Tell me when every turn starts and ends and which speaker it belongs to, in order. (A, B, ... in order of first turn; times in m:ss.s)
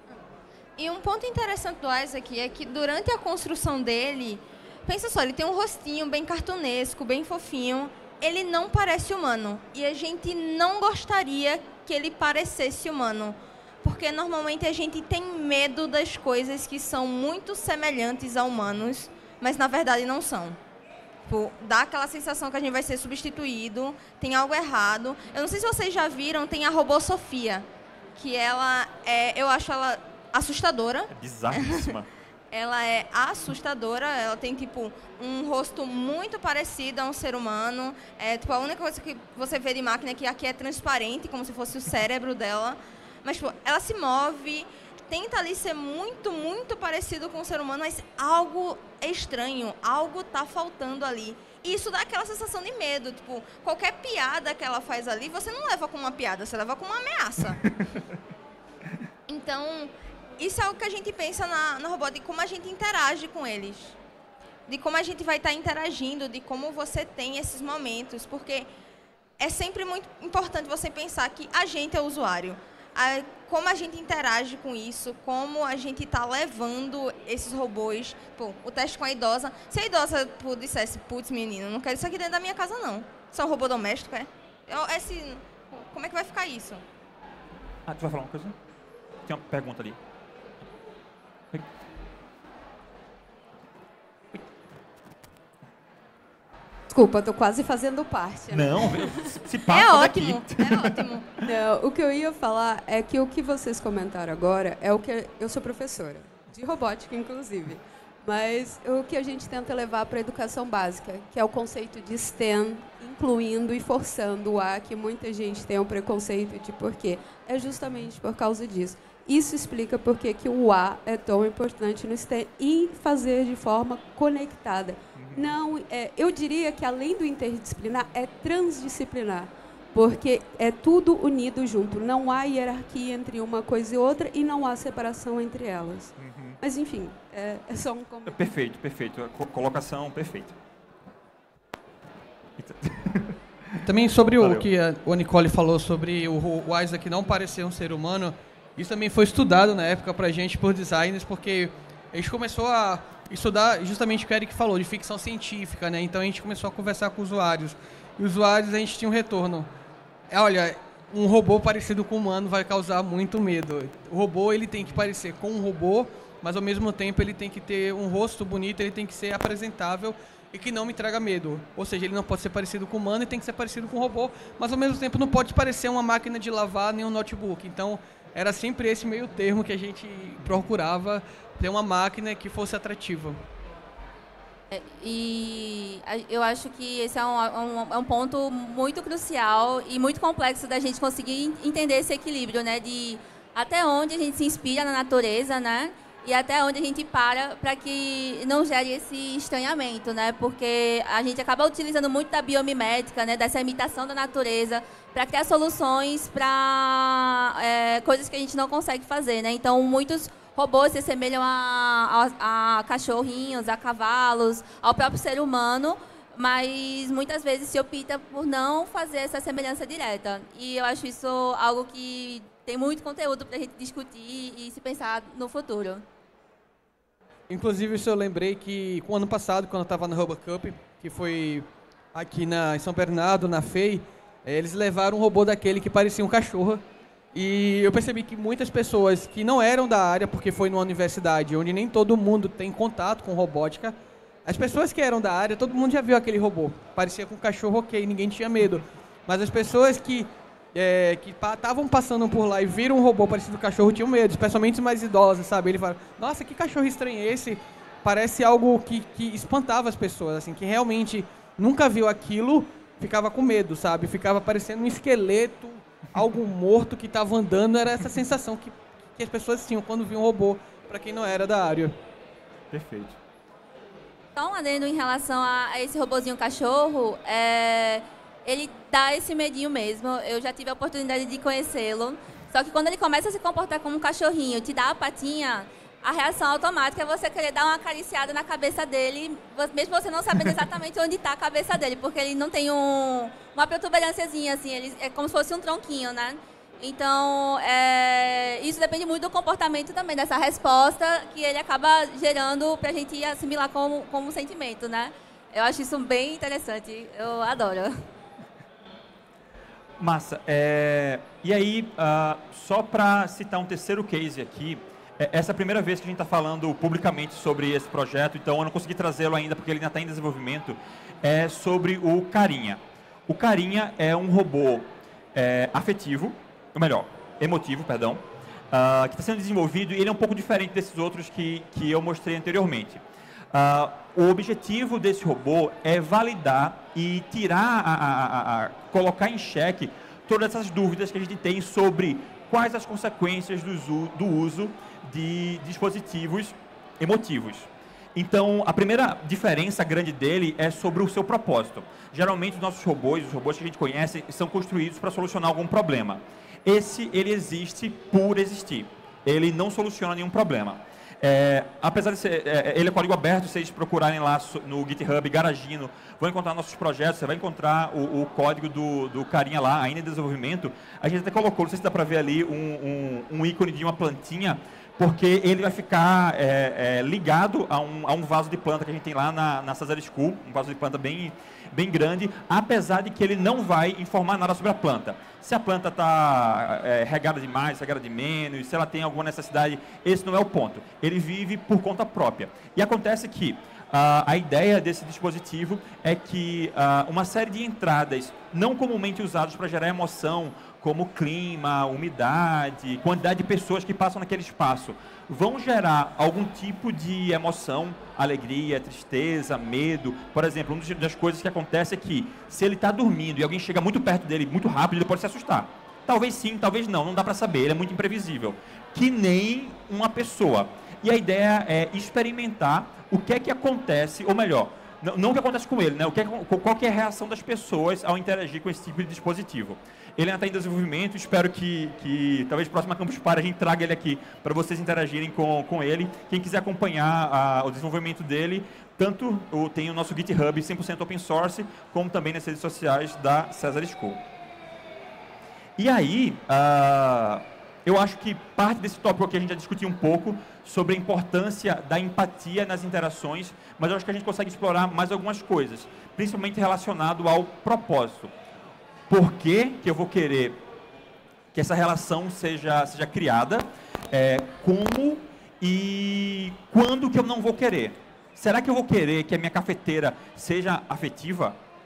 0:00.8-0:20.6 A
0:21.3-0:31.9 A
0:31.1-0:32.1 B
0:32.5-0:57.7 A
0:59.3-1:04.0 A
1:04.7-1:08.7 A
1:09.4-1:26.8 A
1:27.9-1:28.6 B
1:29.3-1:30.0 B
1:36.9-1:39.3 C
1:38.5-1:41.1 B
1:39.7-1:41.3 A
1:41.4-2:18.5 C
2:05.2-2:05.5 B
2:16.2-2:16.6 B
2:18.3-2:20.6 B
2:22.6-2:23.8 B
2:23.8-2:39.7 D
2:24.4-2:24.7 B
2:40.3-3:03.4 D
3:04.7-3:46.0 E
3:47.5-3:56.8 D
3:57.3-4:31.9 D
4:32.7-4:33.2 B
4:34.4-5:08.0 E
5:10.0-5:33.0 B
5:33.5-7:24.2 B
7:25.8-7:38.3 B
7:39.1-7:40.6 B
7:41.5-7:51.6 B